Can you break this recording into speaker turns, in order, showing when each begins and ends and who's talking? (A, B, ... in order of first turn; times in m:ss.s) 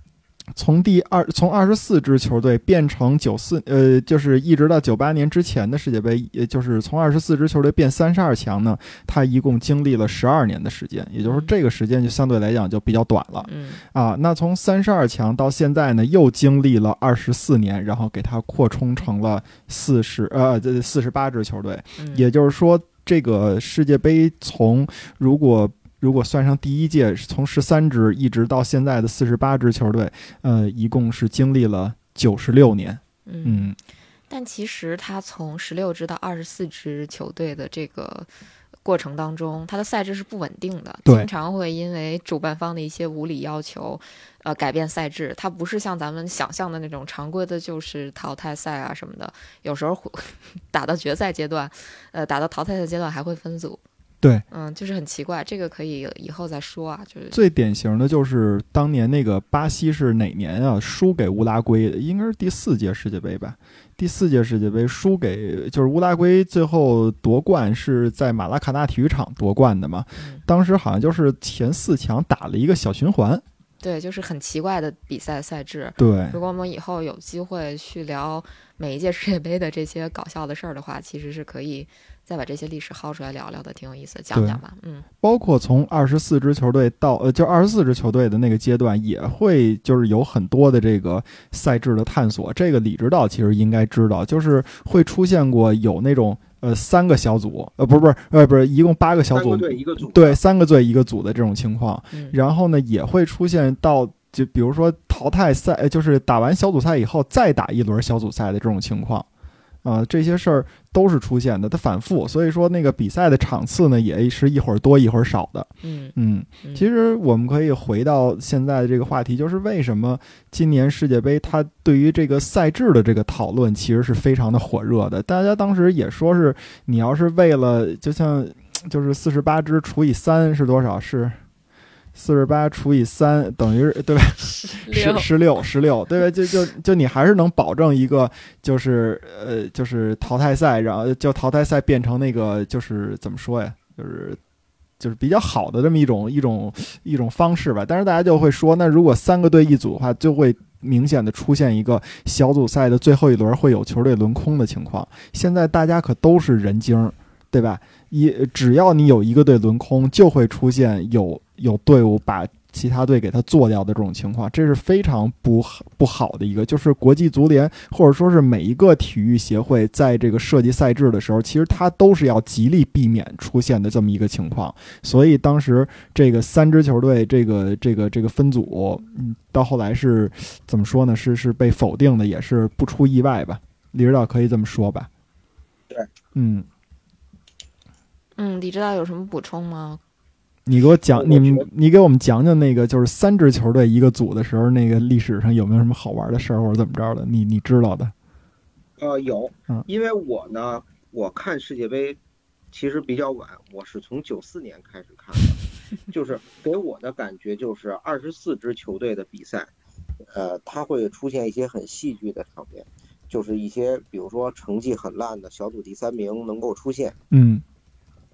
0:00.5-0:33.8 A
0:11.2-0:11.5 B
0:13.4-0:13.8 B
0:22.0-0:22.3 B
0:33.2-0:33.7 B
0:34.3-0:38.3 B
0:38.8-0:53.8 B
0:54.5-0:57.4 B
0:57.3-1:13.4 A
1:10.2-1:10.4 B
1:13.8-1:25.0 B
1:16.0-1:16.4 A
1:24.3-1:24.6 A
1:25.2-1:49.3 A
1:39.3-1:40.4 C
1:49.8-2:11.4 A
1:55.8-1:56.8 B
2:12.1-2:24.4 A
2:14.5-2:15.3 B
2:25.0-3:05.1 A
3:06.3-3:06.7 A
3:08.4-3:10.0 B
3:10.6-3:18.1 A
3:11.1-3:11.7 C
3:19.0-3:22.2 C
3:22.7-3:29.7 C
3:30.2-3:37.2 C
3:37.3-3:37.6 A